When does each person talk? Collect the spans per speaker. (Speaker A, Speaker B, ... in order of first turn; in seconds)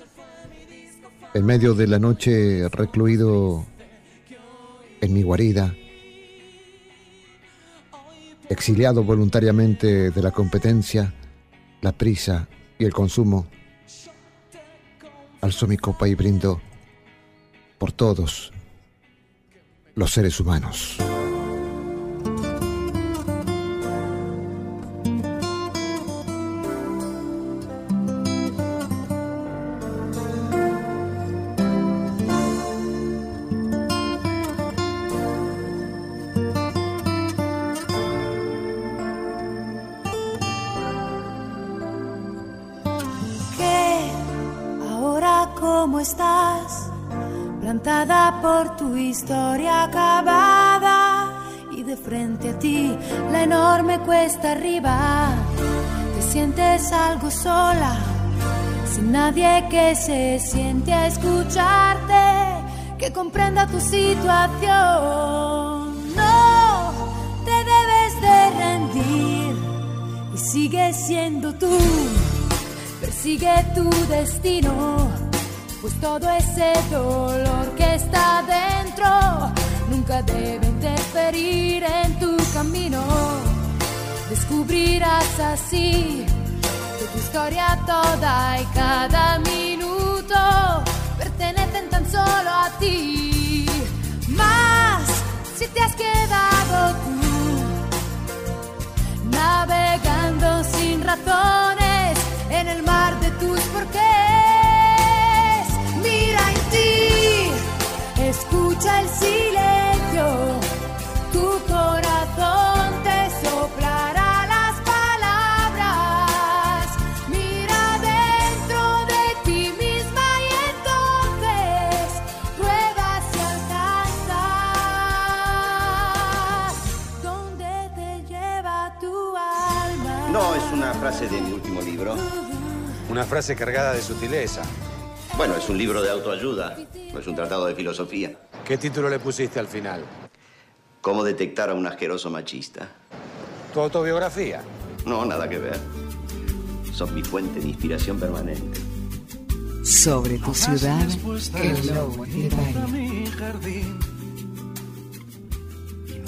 Speaker A: 1.3-3.7, 5.0-5.8, 8.5-11.2, 11.8-13.5, 15.4-16.6, 17.8-18.5, 19.9-21.1
Speaker B: 43.5-46.9, 47.6-55.5, 56.1-58.2, 58.8-72.4, 73.0-75.2, 75.8-83.7, 84.2-86.3, 87.0-97.9, 99.2-110.7, 111.3-130.7
Speaker C: 130.3-132.2, 135.3-138.4, 141.0-142.9, 145.1-145.9, 146.9-148.8
Speaker D: 133.1-134.7, 138.6-140.1, 143.7-144.7
Speaker E: 149.8-153.0